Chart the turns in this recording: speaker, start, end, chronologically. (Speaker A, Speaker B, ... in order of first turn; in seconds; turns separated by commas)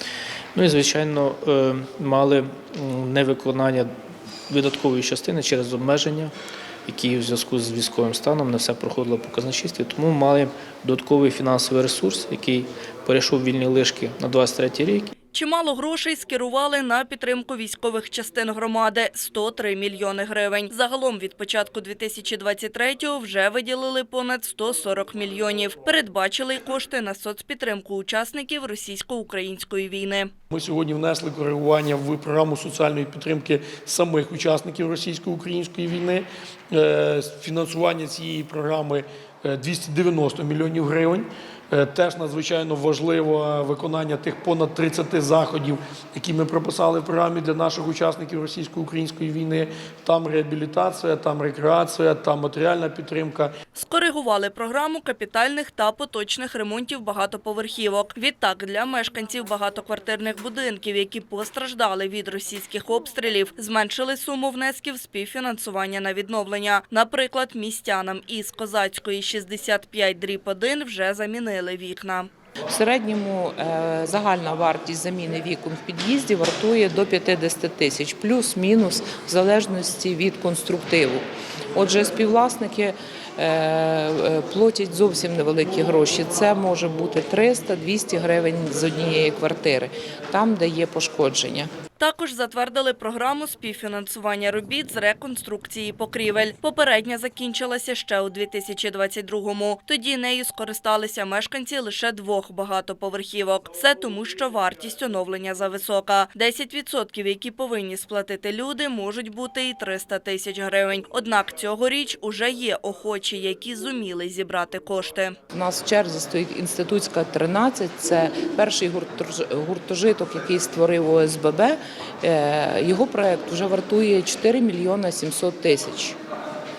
Speaker A: 0.6-3.9, Speaker A: 4.5-6.3, Speaker A: 6.9-15.1, Speaker B: 15.3-30.3, Speaker C: 30.5-53.5, Speaker B: 53.7-72.3, Speaker D: 72.7-91.7, Speaker B: 92.0-115.3, Speaker D: 115.5-126.2